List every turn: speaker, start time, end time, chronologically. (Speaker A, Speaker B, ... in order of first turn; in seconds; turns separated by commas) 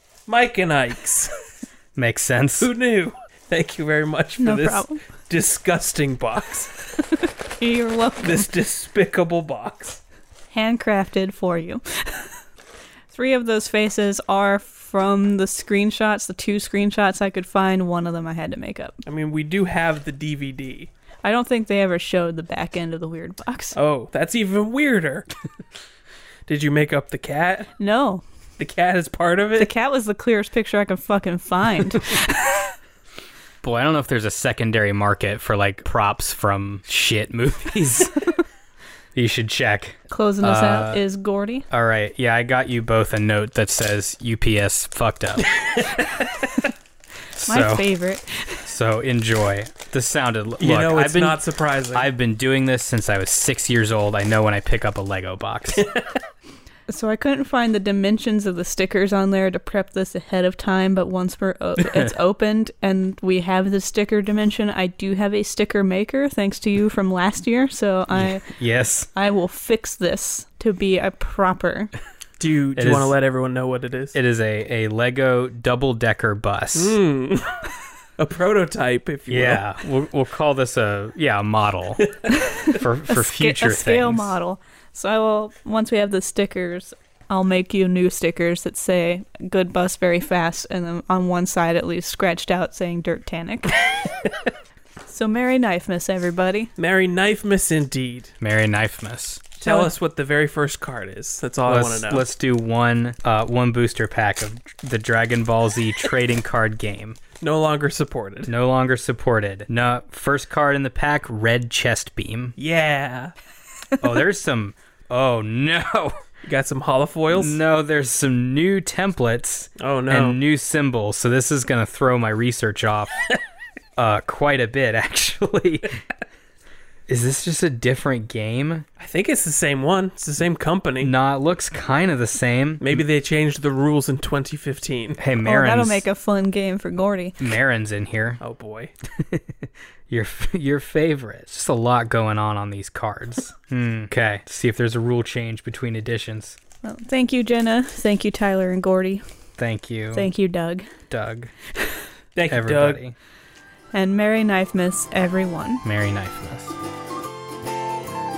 Speaker A: 0.3-1.3, Speaker B: 1.9-2.7, Speaker A: 2.6-6.7, Speaker C: 4.4-5.0, Speaker C: 7.1-8.4, Speaker A: 8.2-10.0, Speaker C: 10.5-12.3, Speaker C: 13.1-19.0, Speaker A: 19.1-20.9, Speaker C: 21.2-23.8, Speaker A: 23.7-25.3, Speaker A: 26.5-27.7, Speaker C: 27.8-28.2, Speaker A: 28.6-29.7, Speaker C: 29.6-32.7, Speaker B: 33.6-38.2, Speaker B: 39.1-41.0, Speaker C: 40.1-41.6, Speaker B: 41.7-45.5, Speaker B: 47.4-47.9, Speaker C: 47.4-48.7, Speaker B: 48.6-51.4, Speaker A: 50.6-52.1, Speaker B: 51.9-55.8, Speaker A: 55.7-56.2, Speaker C: 56.9-68.5, Speaker B: 68.1-69.1, Speaker C: 69.1-71.9, Speaker A: 72.4-74.2, Speaker B: 72.8-73.1, Speaker B: 74.1-77.0, Speaker A: 76.7-79.6, Speaker B: 79.3-82.1, Speaker C: 82.3-93.8, Speaker B: 82.7-84.4, Speaker C: 95.0-96.7, Speaker A: 96.8-98.3, Speaker B: 98.4-99.5, Speaker C: 99.6-99.9, Speaker A: 99.6-102.2, Speaker B: 101.7-107.2, Speaker A: 107.4-108.5, Speaker B: 108.5-112.5, Speaker A: 112.6-113.3, Speaker B: 114.0-116.1, Speaker A: 116.4-117.6, Speaker B: 117.3-123.2, Speaker A: 119.8-120.4, Speaker B: 124.0-125.9, Speaker B: 127.1-128.8, Speaker A: 129.0-131.1, Speaker B: 131.0-133.0, Speaker A: 132.8-135.2, Speaker B: 135.2-136.1, Speaker C: 135.4-137.4, Speaker B: 137.4-138.4, Speaker A: 138.4-138.9, Speaker B: 139.2-146.6, Speaker C: 146.8-149.2, Speaker B: 149.6-150.3, Speaker C: 150.1-150.8, Speaker B: 151.1-151.5, Speaker A: 152.3-153.0, Speaker B: 152.5-153.1, Speaker C: 153.9-155.8, Speaker B: 155.8-156.8